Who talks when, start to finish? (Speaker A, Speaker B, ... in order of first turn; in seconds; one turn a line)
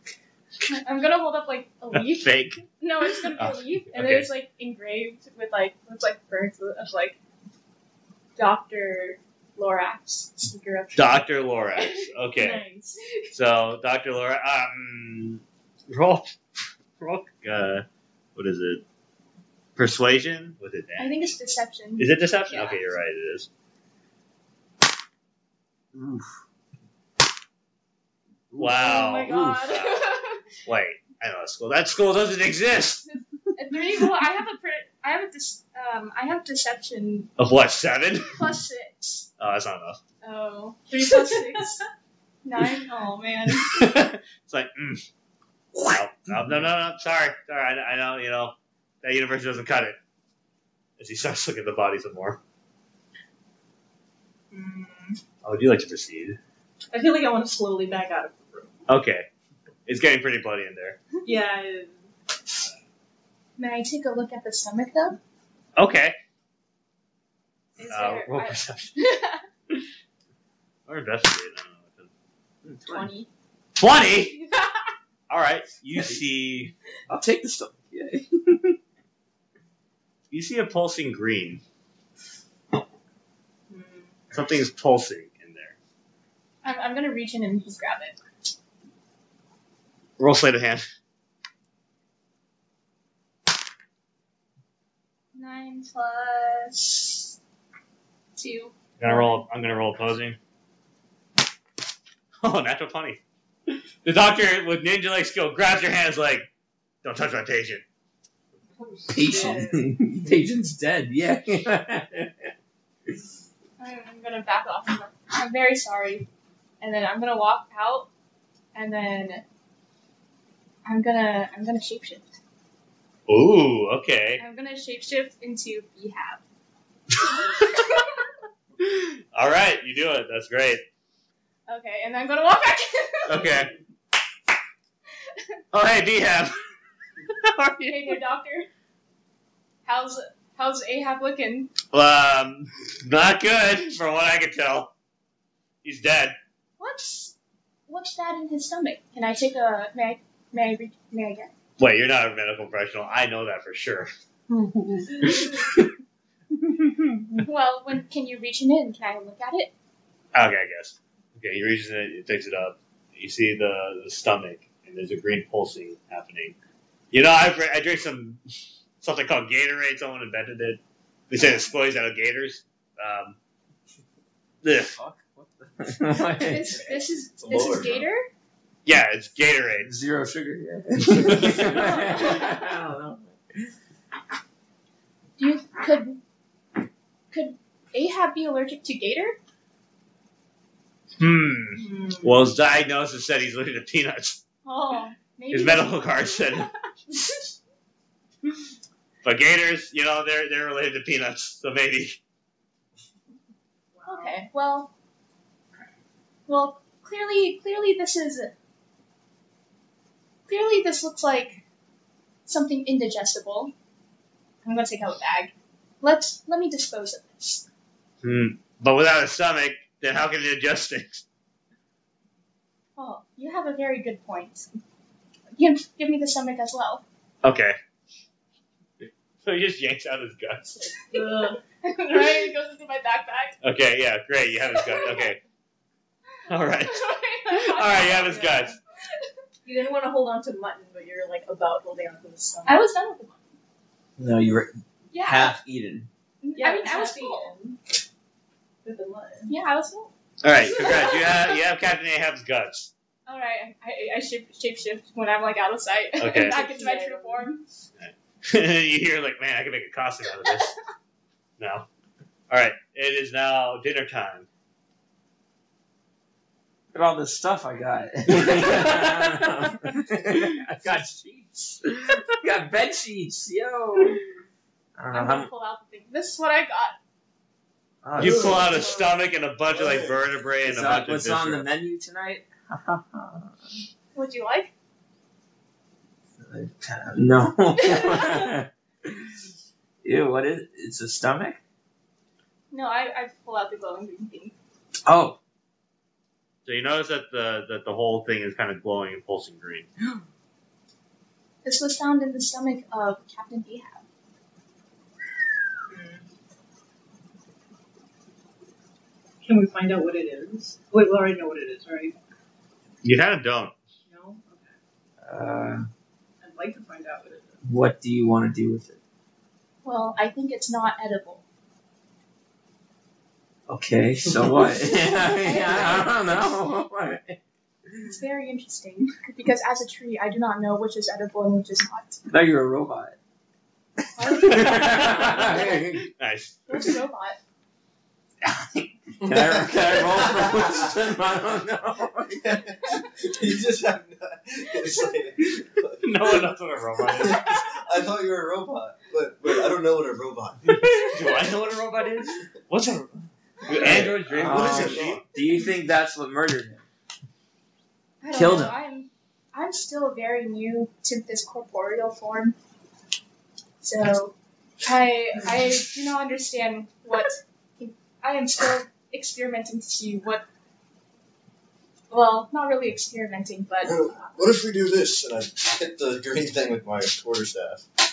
Speaker A: 0.6-7.2
Speaker B: 1.9-2.6
Speaker B: 3.3-4.3
Speaker A: 8.4-11.3
Speaker B: 10.9-12.7
Speaker C: 12.3-13.0
Speaker B: 13.3-16.4
Speaker B: 17.0-18.8
Speaker B: 19.8-21.2
Speaker A: 21.0-22.8
Speaker B: 22.0-23.5
Speaker D: 25.9-26.3
Speaker D: 28.5-29.7
Speaker B: 28.6-30.1
Speaker A: 28.8-30.4
Speaker B: 30.6-33.1
Speaker A: 33.1-37.3
Speaker B: 37.4-38.4
Speaker A: 38.2-39.3
Speaker B: 39.4-40.0
Speaker A: 40.2-41.8
Speaker C: 41.0-41.7
Speaker A: 42.4-43.9
Speaker B: 43.6-45.0
Speaker B: 45.8-50.0
Speaker B: 51.0-52.4
Speaker C: 54.5-55.2
Speaker B: 55.4-56.4
Speaker C: 56.9-58.8
Speaker B: 58.9-59.3
Speaker B: 59.9-61.0
Speaker C: 61.2-62.0
Speaker A: 63.6-65.2
Speaker B: 65.8-66.2
Speaker A: 67.8-69.4
Speaker B: 67.9-68.9
Speaker B: 70.9-72.1
Speaker D: 72.7-73.1
Speaker A: 72.9-73.3
Speaker B: 73.8-74.4
Speaker B: 75.3-76.7
Speaker D: 77.1-78.8
Speaker B: 80.3-81.6
Speaker C: 83.7-84.2
Speaker B: 84.3-85.8
Speaker A: 86.6-88.2
Speaker B: 90.2-90.8
Speaker A: 95.3-97.3
Speaker A: 98.4-99.4
Speaker B: 99.0-100.4
Speaker B: 102.4-103.2
Speaker B: 104.0-106.5
Speaker B: 107.0-107.8
Speaker C: 108.8-109.8
Speaker D: 109.1-112.5
Speaker A: 113.8-116.3
Speaker A: 116.8-118.1
Speaker A: 118.7-119.5
Speaker A: 120.8-122.3
Speaker B: 123.3-124.4
Speaker A: 124.4-126.4
Speaker A: 127.5-128.1
Speaker B: 128.8-130.8
Speaker A: 131.7-133.6
Speaker B: 133.3-133.7
Speaker B: 135.7-136.6
Speaker B: 137.3-138.2
Speaker A: 137.9-138.7
Speaker A: 139.9-141.7
Speaker B: 141.9-144.9
Speaker B: 145.8-146.4
Speaker A: 146.8-147.3
Speaker A: 147.9-151.5
Speaker B: 151.8-154.1
Speaker A: 157.3-159.7
Speaker B: 160.3-166.6
Speaker B: 167.1-168.4
Speaker B: 169.0-173.4
Speaker B: 174.6-175.0
Speaker D: 175.0-176.9
Speaker A: 176.4-178.3
Speaker E: 177.4-178.1
Speaker B: 178.9-179.9
Speaker D: 179.8-183.7
Speaker A: 181.6-182.5
Speaker A: 185.4-186.2
Speaker A: 187.3-189.4
Speaker B: 191.2-194.4
Speaker C: 191.8-192.4
Speaker A: 194.7-196.7
Speaker B: 195.5-196.7
Speaker B: 199.2-202.2
Speaker C: 203.9-204.4
Speaker A: 204.1-204.9
Speaker A: 206.5-208.5
Speaker A: 210.5-211.6
Speaker A: 212.5-213.7
Speaker A: 214.6-217.7
Speaker B: 218.2-221.2
Speaker A: 223.0-224.7
Speaker A: 225.6-227.0
Speaker B: 227.4-227.8
Speaker B: 229.4-230.9
Speaker C: 231.1-231.6
Speaker A: 231.1-233.6
Speaker B: 233.6-235.4
Speaker A: 234.8-235.2
Speaker B: 236.5-238.8
Speaker A: 236.9-238.5
Speaker C: 238.0-238.7
Speaker C: 239.6-242.8
Speaker A: 242.7-243.5
Speaker D: 244.2-246.1
Speaker A: 245.1-245.6
Speaker A: 246.4-247.6
Speaker C: 246.6-247.8
Speaker C: 248.8-249.5
Speaker A: 249.5-250.1
Speaker B: 250.4-252.9
Speaker A: 250.8-251.3
Speaker A: 253.3-257.6
Speaker B: 256.2-256.6
Speaker C: 256.3-257.5
Speaker B: 258.0-260.7
Speaker B: 261.6-261.9
Speaker B: 262.5-264.5
Speaker D: 266.9-274.2
Speaker B: 268.6-269.1
Speaker D: 275.0-275.5
Speaker A: 275.1-277.0
Speaker D: 278.0-278.9
Speaker E: 278.1-278.9
Speaker B: 278.2-281.7
Speaker E: 279.7-280.2
Speaker D: 280.6-283.8
Speaker A: 284.1-284.7
Speaker D: 286.4-289.3
Speaker A: 287.8-288.5
Speaker D: 290.0-291.6
Speaker A: 292.7-294.6
Speaker D: 295.1-295.4
Speaker B: 296.6-299.9
Speaker A: 301.6-304.0
Speaker C: 305.9-306.2
Speaker C: 309.4-312.2
Speaker B: 313.0-313.7
Speaker C: 314.1-314.8
Speaker D: 315.2-315.9
Speaker C: 316.4-317.6
Speaker D: 317.6-319.0
Speaker A: 319.8-321.4
Speaker D: 323.7-327.4
Speaker A: 325.0-326.1
Speaker A: 328.0-332.2
Speaker D: 332.3-333.2
Speaker A: 334.2-335.8
Speaker D: 334.2-336.1
Speaker B: 334.5-336.6
Speaker A: 336.7-337.4
Speaker D: 338.4-342.6
Speaker E: 339.2-340.9
Speaker E: 342.4-346.4
Speaker B: 346.0-347.5
Speaker E: 347.1-350.8
Speaker B: 350.7-353.1
Speaker B: 353.7-355.2
Speaker D: 353.8-356.9
Speaker E: 353.8-355.2
Speaker A: 358.2-362.6
Speaker D: 358.3-358.8
Speaker A: 363.8-370.4
Speaker A: 372.1-373.9
Speaker E: 373.8-377.8